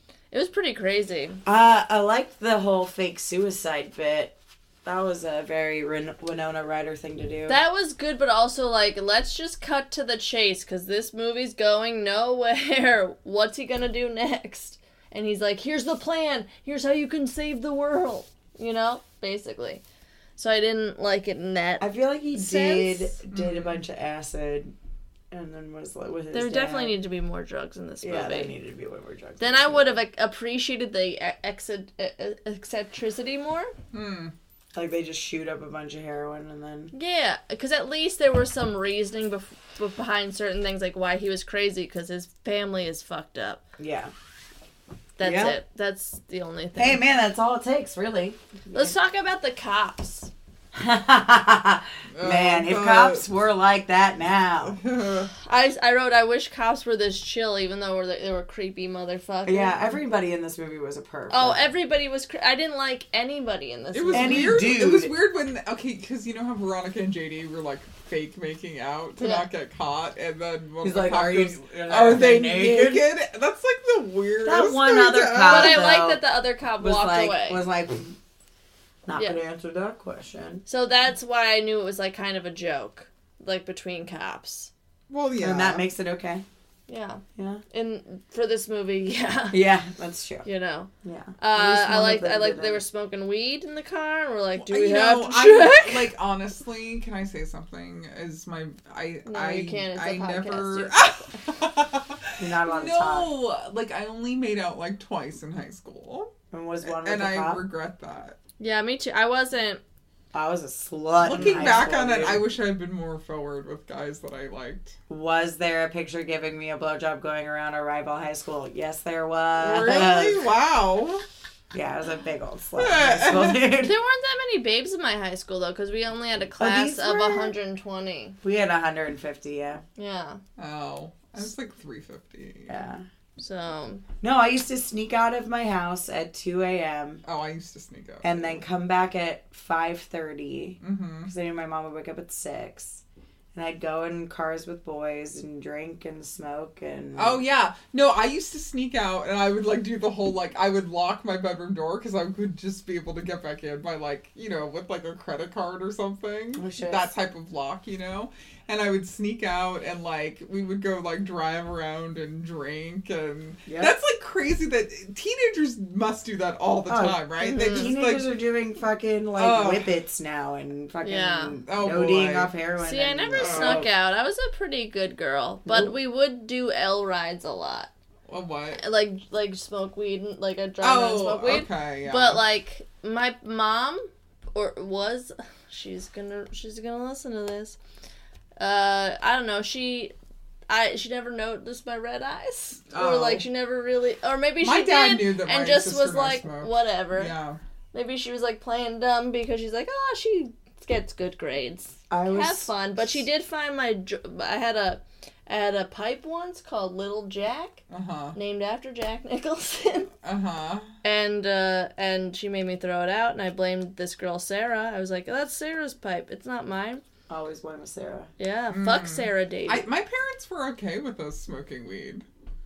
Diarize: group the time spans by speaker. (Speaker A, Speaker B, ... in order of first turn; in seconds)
Speaker A: 0.3-1.4, 7.5-19.8, 20.4-23.2, 26.3-28.6, 29.4-33.7, 36.9-43.6, 45.2-47.0, 48.7-50.3, 55.5-59.8, 61.3-64.5, 69.2-69.5, 75.5-77.6, 80.7-84.7, 86.9-89.6, 90.5-96.1, 99.3-101.3, 108.6-109.8, 123.8-128.4, 130.0-130.4, 133.4-134.0, 167.4-167.9, 171.0-171.6, 172.8-177.9, 178.8-187.8, 188.6-190.1, 190.7-197.3, 197.9-207.8, 208.3-210.1, 211.0-217.0, 218.4-219.9
Speaker B: 1.4-7.6, 21.8-24.7, 25.3-27.0, 28.0-30.0, 34.7-36.9, 43.8-44.1, 45.2-45.6, 46.8-49.0, 50.7-54.8, 59.5-61.7, 64.1-65.2, 70.8-73.1, 74.4-76.2, 76.8-78.2, 79.0-80.6, 85.4-86.4, 87.4-87.6, 89.5-90.5, 91.0-92.8, 102.4-103.3, 106.5-107.6, 110.3-112.5, 115.1-120.5, 121.7-123.9, 126.6-127.5, 128.4-129.8, 132.7-133.1, 134.2-137.2, 138.2-143.0, 143.5-147.4, 156.6-157.1, 163.7-163.9, 166.9-173.9, 175.7-175.9, 202.1-203.2, 217.3-218.3
Speaker C: 23.3-23.8, 33.9-34.3, 52.1-53.3, 54.6-55.3, 63.9-75.8, 85.1-85.8, 94.6-106.3, 106.9-108.4, 111.2-115.0, 119.6-121.2, 122.8-123.8, 130.6-132.9, 137.2-138.6, 140.8-141.3, 147.1-168.4, 169.4-169.9, 171.7-172.5, 173.4-173.9, 178.3-178.8, 180.8-182.4, 192.9-193.4, 194.6-197.6, 207.9-208.4, 210.2-210.9, 218.7-222.2